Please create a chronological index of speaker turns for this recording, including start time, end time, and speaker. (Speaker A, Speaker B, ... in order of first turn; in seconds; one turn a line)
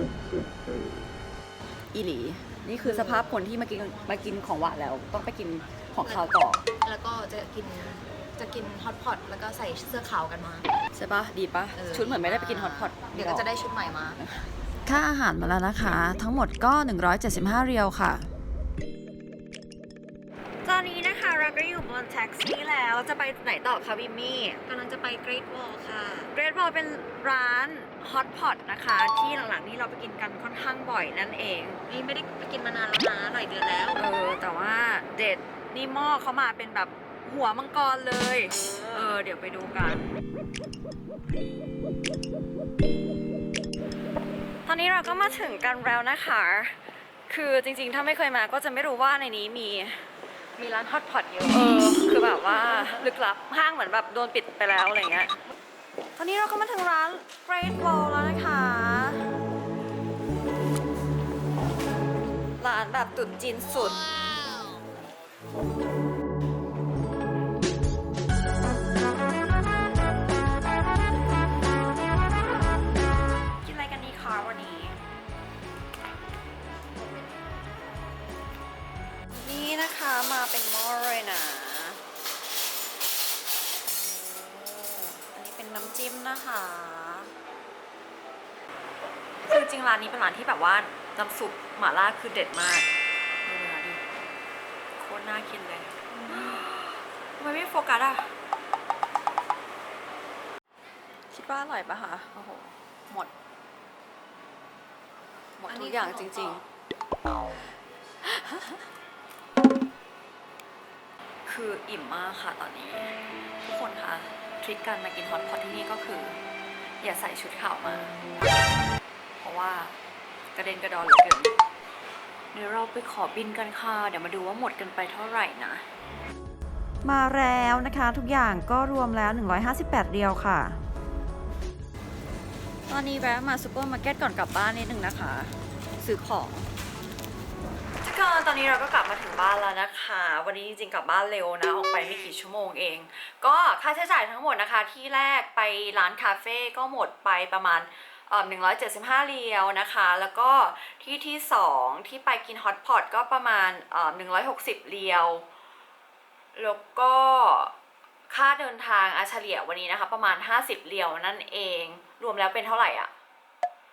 Speaker A: 1.9-6.7
Speaker B: 6.0-10.7
Speaker A: 10.9-13.5
Speaker B: 11.8-14.2
Speaker A: 14.9-18.3
Speaker A: 20.6-24.6
Speaker B: 24.7-26.3
Speaker A: 26.3-31.8
Speaker B: 31.9-34.0
Speaker A: 34.0-40.1
Speaker A: 44.6-46.8
Speaker A: 47.3-50.1
Speaker B: 50.6-52.8
Speaker A: 51.5-55.3
Speaker A: 56.2-59.4
Speaker A: 62.6-64.0
Speaker A: 73.6-75.0
Speaker A: 79.3-82.0
Speaker A: 83.9-87.3
Speaker A: 89.4-92.9
Speaker A: 93.5-94.0
Speaker A: 95.0-98.3
Speaker A: 101.3-103.3
Speaker A: 105.6-106.6
Speaker B: 105.7-106.6
Speaker A: 108.2-108.8
Speaker A: 111.5-116.4
Speaker A: 117.0-118.3
Speaker A: 119.4-119.9
Speaker A: 120.5-121.5
Speaker A: 122.5-125.9
Speaker A: 127.0-130.8
Speaker A: 132.9-136.7
Speaker A: 138.0-155.5
Speaker A: 156.6-157.7
Speaker A: 158.3-163.1